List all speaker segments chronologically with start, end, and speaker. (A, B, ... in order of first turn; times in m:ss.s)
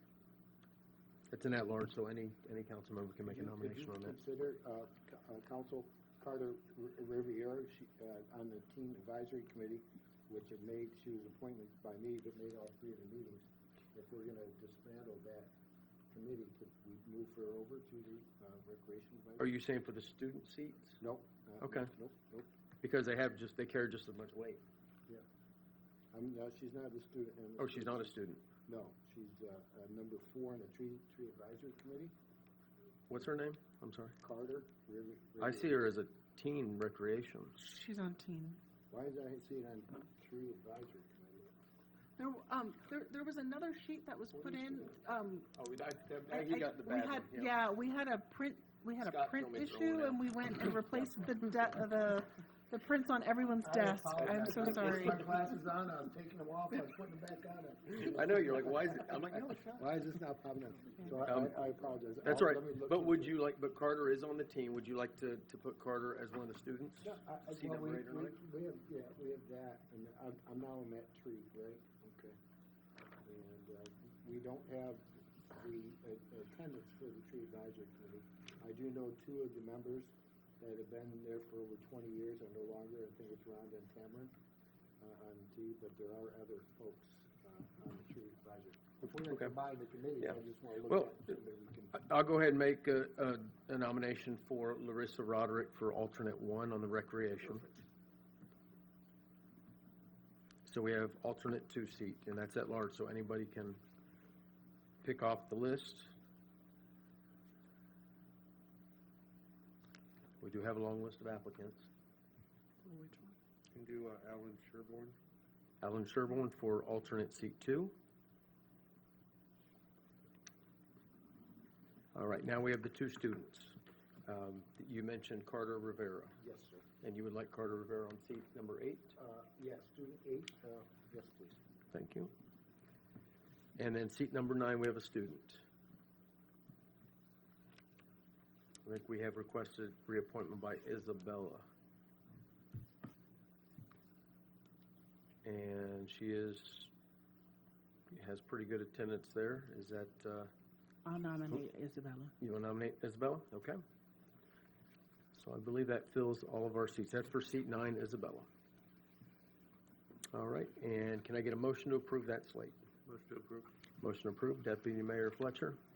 0:01.3-0:04.2 A
0:03.3-0:15.6 B
0:16.1-0:19.5 B
0:19.4-0:21.0 A
0:21.0-0:22.5 B
0:21.6-0:21.9 A
0:22.8-0:24.6 A
0:26.1-0:32.2 B
0:27.6-0:28.4 A
0:33.1-0:34.2 A
0:34.2-0:35.8 B
0:35.4-0:37.6 A
0:37.6-0:38.6 C
0:38.9-0:41.5 B
0:42.2-0:45.5 C
0:44.4-0:44.9 A
0:45.5-0:47.6 A
0:46.3-0:55.2 C
0:49.0-0:51.8 A
0:53.6-1:03.4 B
0:58.0-0:59.8 A
1:01.2-1:08.4 A
1:07.0-1:12.4 B
1:13.2-1:24.3 B
1:25.0-1:32.0 B
1:29.1-1:29.5 A
1:30.9-1:31.3 A
1:31.9-1:37.7 A
1:40.6-1:43.8 A
1:45.0-1:46.1 A
1:50.4-1:51.9 A
1:52.8-1:53.3 C
1:53.7-1:55.2 D
1:55.8-1:58.0 A
2:02.1-2:06.4 A
2:06.4-2:06.9 B
2:07.0-2:09.2 A
2:09.2-2:11.6 B
2:11.9-2:12.3 A
2:13.8-2:15.6 A
2:18.8-2:21.7 A
2:25.4-2:26.9 A
2:28.1-2:30.5 A
2:31.0-2:32.3 C
2:32.4-2:33.8 A
2:35.3-2:38.5 A
2:40.3-2:42.8 A
2:43.0-2:43.7 D
2:44.0-2:45.8 A